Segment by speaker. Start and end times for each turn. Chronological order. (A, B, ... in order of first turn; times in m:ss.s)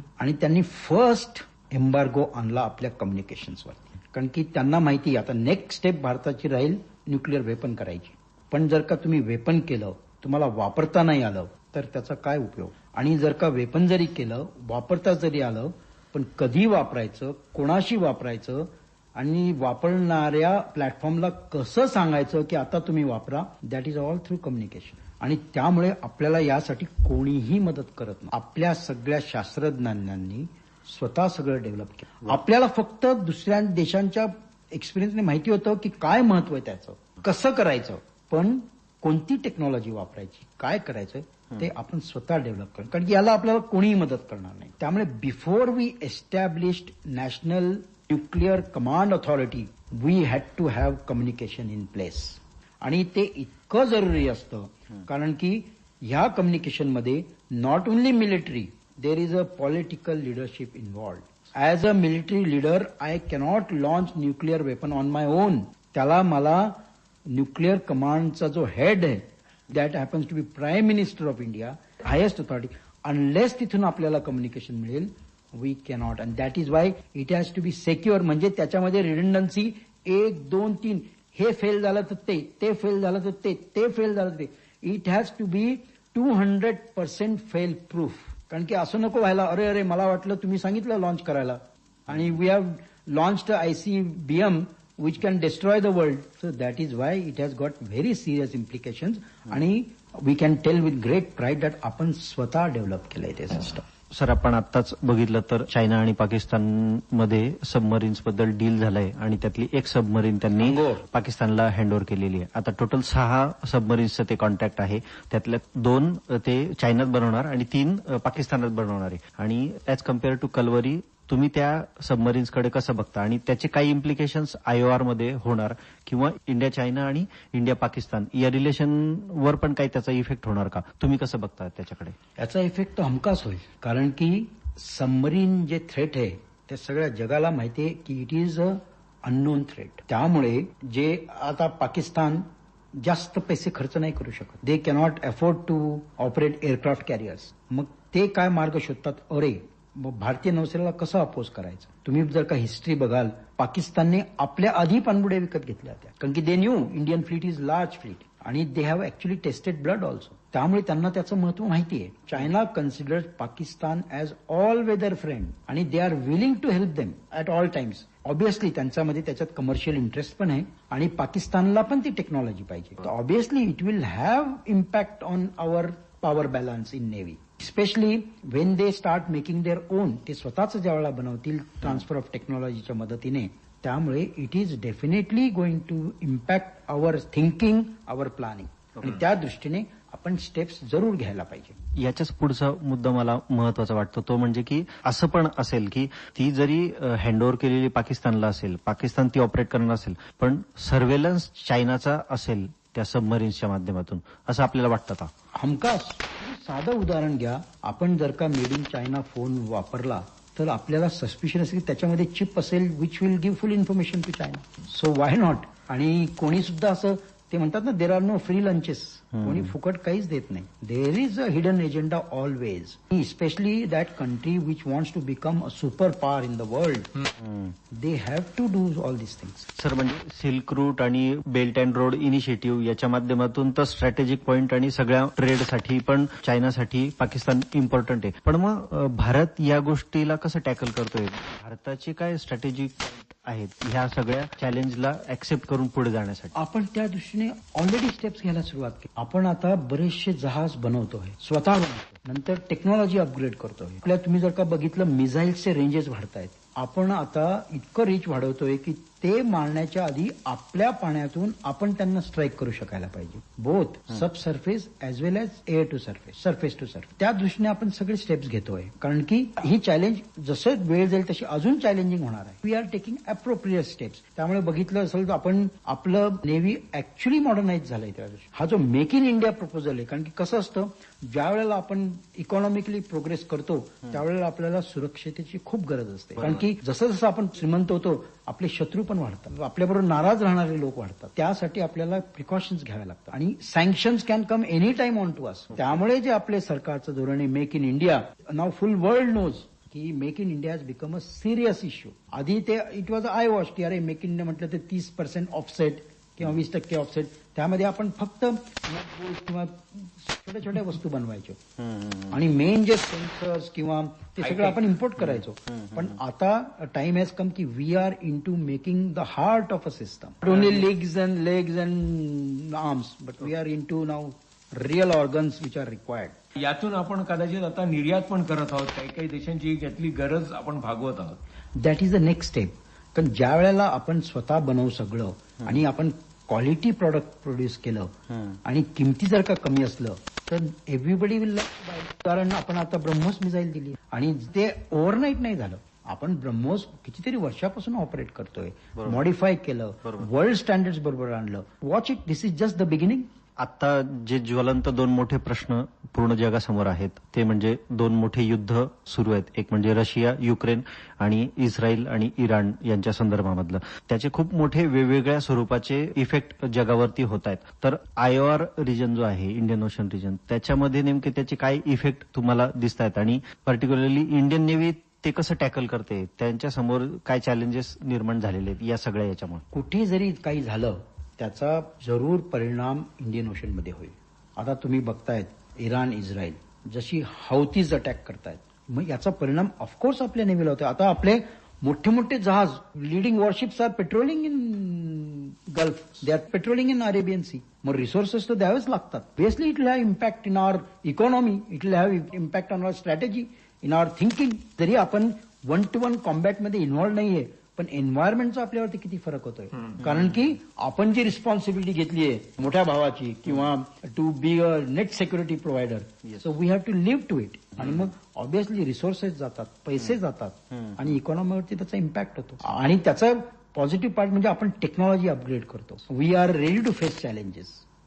0:00.2-1:43.8 A
1:44.1-2:12.2 B
1:50.6-1:51.0 A
2:12.4-3:11.8 A
3:11.9-3:25.3 B
3:25.5-3:47.1 A
3:39.4-3:39.7 B
3:47.4-3:47.7 B
3:47.9-3:49.6 A
3:49.8-4:06.6 B
4:06.5-5:11.6 A
4:46.4-4:46.6 B
5:11.8-5:12.4 B
5:12.3-5:26.4 A
5:14.4-5:14.8 C
5:15.2-5:16.2 B
5:20.5-5:20.8 C
5:26.6-5:31.4 C
5:31.8-5:38.1 A
5:38.3-5:38.6 B
5:38.6-5:53.3 A
5:49.0-5:49.2 B
5:53.6-6:19.6 B
6:19.7-7:07.8 A
6:49.8-6:50.1 C
7:00.7-7:01.0 B